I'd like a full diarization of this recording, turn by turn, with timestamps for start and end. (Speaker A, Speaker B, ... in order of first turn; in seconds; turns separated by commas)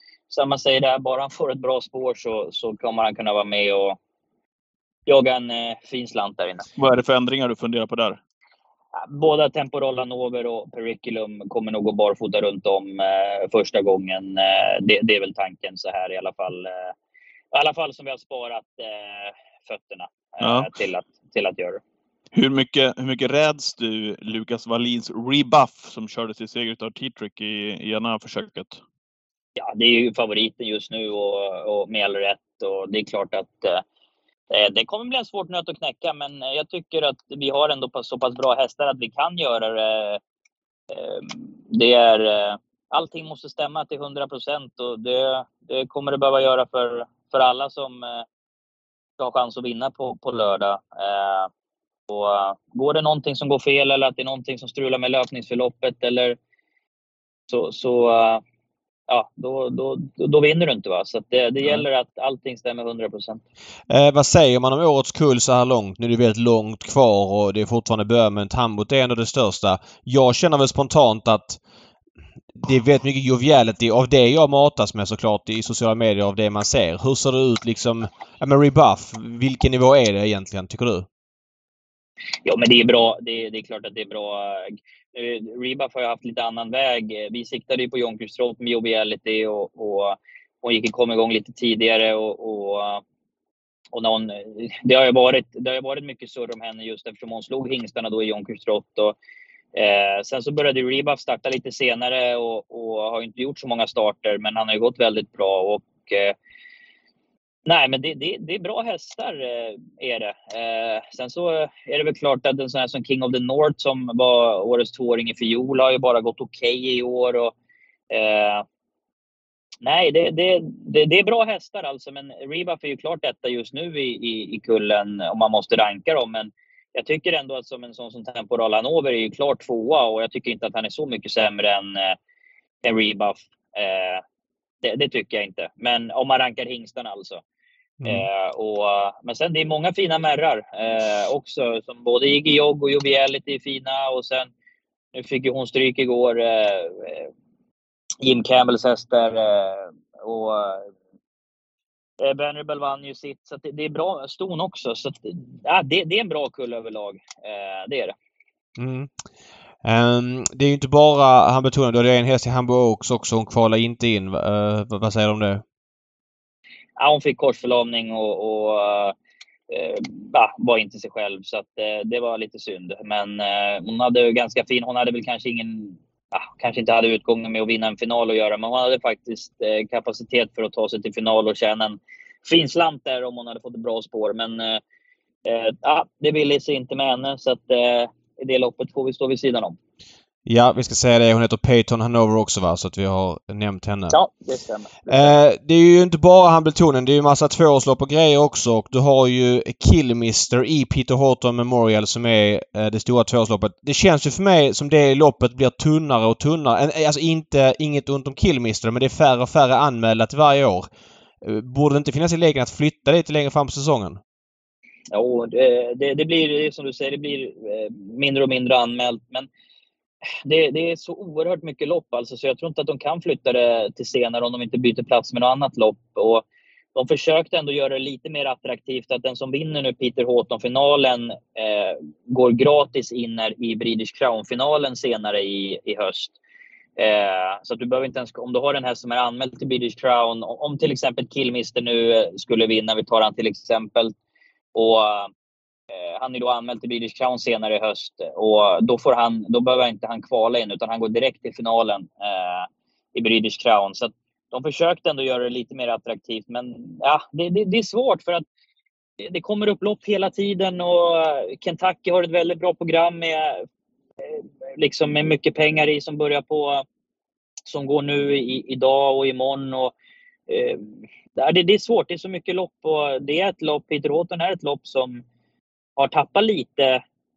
Speaker A: 0.3-4.0, Speaker A: 5.0-6.6, Speaker B: 6.8-8.2, Speaker A: 9.0-16.9, Speaker A: 17.5-21.8, Speaker B: 20.4-20.7, Speaker B: 22.3-28.8, Speaker A: 29.6-33.8, Speaker A: 34.5-40.2, Speaker A: 40.9-48.2, Speaker A: 49.2-51.5, Speaker A: 52.1-56.4, Speaker A: 57.5-58.4, Speaker A: 59.1-63.4, Speaker C: 63.9-71.6, Speaker C: 72.5-81.1, Speaker A: 82.4-93.0, Speaker A: 93.9-99.2, Speaker A: 99.7-106.3, Speaker A: 107.7-117.5, Speaker A: 118.1-118.6, Speaker A: 119.8-132.2, Speaker A: 132.8-134.2, Speaker A: 134.8-137.4, Speaker C: 138.0-138.3, Speaker A: 138.0-144.5, Speaker A: 145.1-147.3, Speaker A: 148.2-150.9, Speaker A: 152.2-158.1, Speaker C: 158.8-159.1, Speaker C: 159.8-165.6, Speaker A: 167.0-169.1, Speaker A: 169.7-184.8, Speaker A: 185.4-189.8, Speaker C: 190.4-194.2, Speaker A: 194.1-195.3, Speaker C: 195.1-210.9, Speaker C: 211.4-214.2, Speaker A: 215.1-219.5, Speaker A: 220.4-226.4, Speaker A: 226.9-236.3, Speaker A: 237.0-244.1, Speaker A: 244.7-245.3, Speaker A: 245.9-258.4, Speaker A: 259.2-263.6, Speaker A: 264.2-266.8, Speaker A: 267.6-269.9, Speaker A: 270.5-275.2, Speaker A: 276.0-277.0